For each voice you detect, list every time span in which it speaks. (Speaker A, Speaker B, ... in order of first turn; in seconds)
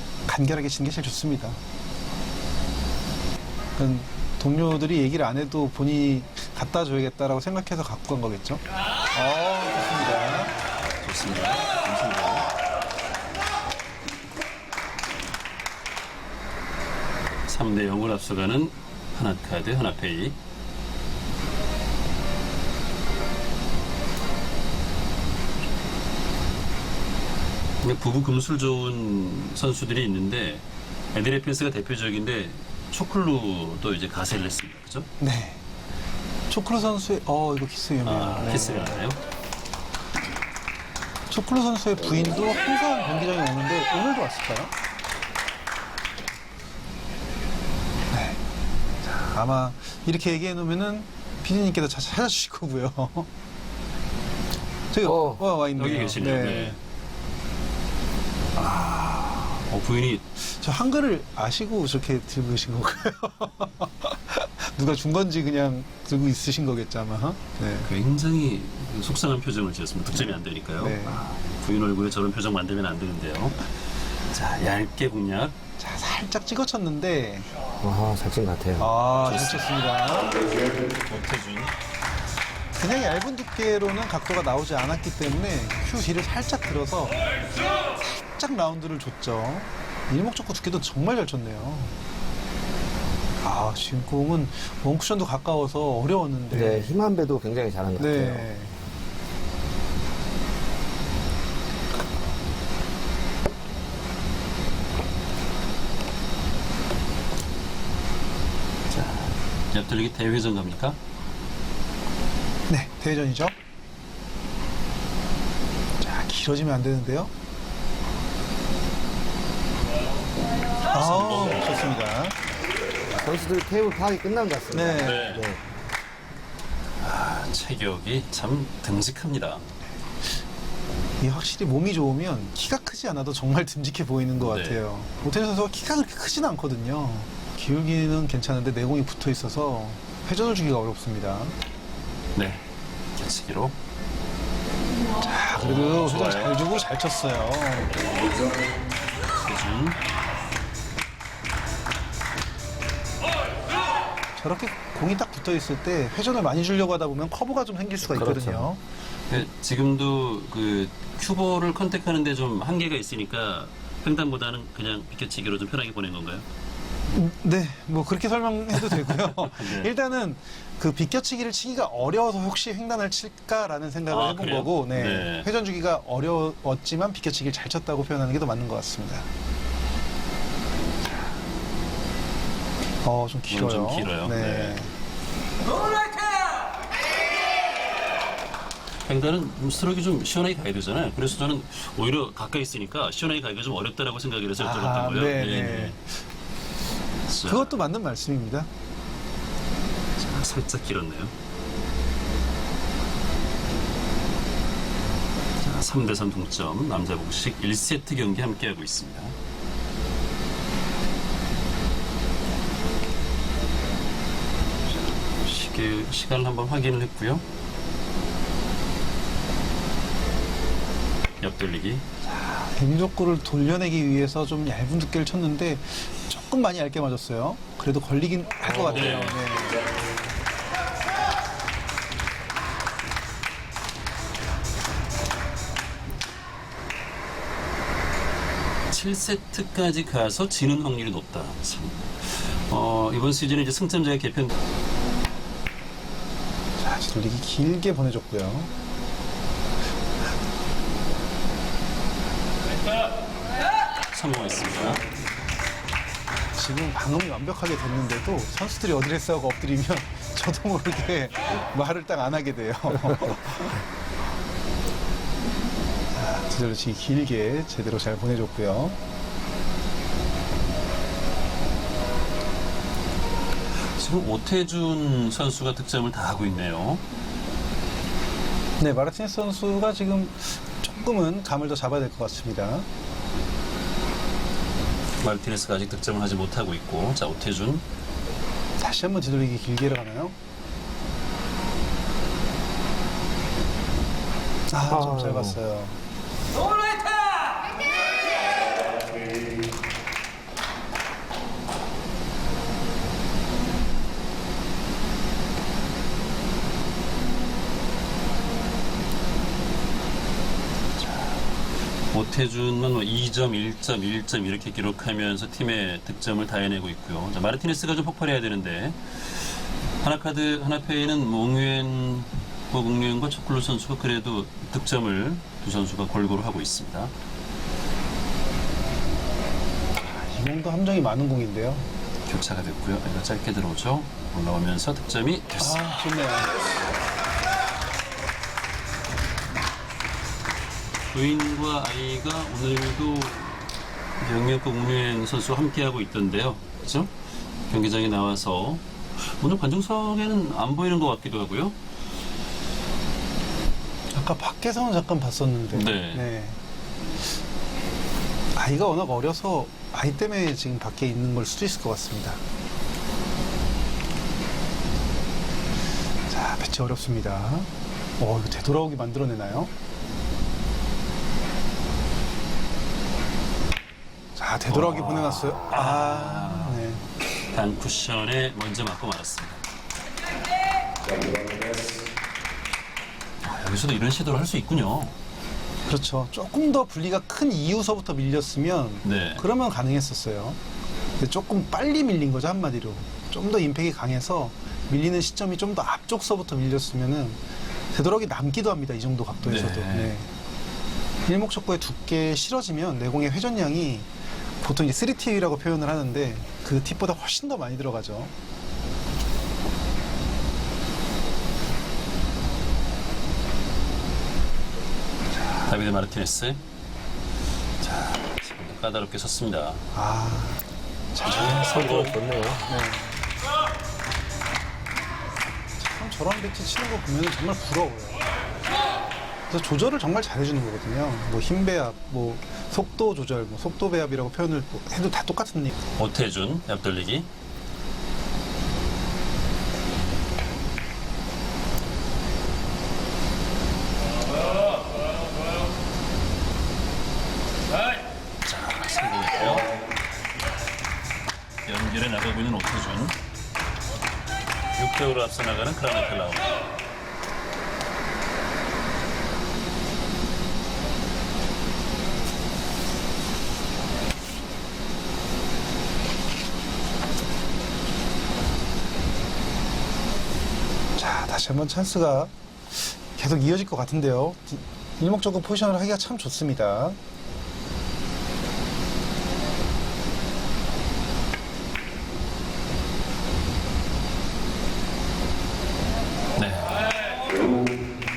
Speaker A: 0.2-1.6, 3.8-10.5, 35.2-35.6, 36.5-39.0, 41.3-44.7, 48.1-48.4, 49.0-53.3, 54.9-56.8, 60.4-67.9, 70.8-71.2, 75.8-77.5, 78.8-80.4, 82.8-87.2, 87.9-91.9, 93.4-97.0, 98.0-98.8, 112.7-113.5, 116.0-117.3, 120.9-122.3, 124.7-125.3, 131.2-141.5, 145.2-148.0, 154.3-158.8, 167.1-179.2, 183.0-184.9, 194.6-196.1, 197.4-198.7, 222.2-229.8, 246.8-248.7, 256.5-263.8, 266.1-269.0, 278.8-282.9, 288.8-290.3, 294.7-296.0, 330.0-331.9, 335.6-336.6, 354.1-356.6, 358.5-362.4, 366.3-369.7, 374.4-377.0, 385.9-390.6, 391.2-397.4, 397.9-400.3, 401.3-404.1, 404.6-408.3, 419.9-420.6, 421.1-421.8, 422.7-423.2, 425.8-428.3, 429.5-435.7, 470.9-477.0
Speaker B: 11.0-12.5, 17.4-20.4, 27.8-35.1, 38.0-39.2, 55.7-56.8, 58.5-60.2, 67.8-73.7, 74.3-75.5, 79.2-80.5, 81.0-81.7, 108.9-111.0, 120.9-121.9, 125.0-125.5, 127.0-129.6, 134.4-134.8, 142.3-143.8, 145.6-146.6, 149.4-150.0, 159.3-166.4, 168.8-169.9, 174.1-175.5, 183.5-184.8, 189.1-196.0, 197.3-197.8, 200.2-201.3, 205.6-209.3, 215.3-217.4, 221.4-222.0, 228.7-229.4, 238.9-244.5, 254.1-255.0, 273.9-277.0, 285.2-287.8, 311.0-327.1, 332.2-335.8, 341.1-347.1, 347.7-351.8, 355.7-356.3, 374.7-376.8, 377.5-379.6, 383.4-385.1, 389.0-389.4, 399.4-400.1, 415.5-416.6, 417.9-419.9, 421.2-422.2, 436.0-437.3, 448.4-449.7, 451.6-453.1, 454.8-456.5, 486.3-487.1
Speaker C: 55.0-55.4, 77.8-78.9, 96.5-98.5, 123.2-125.6, 158.0-158.7, 294.9-295.6, 421.6-422.7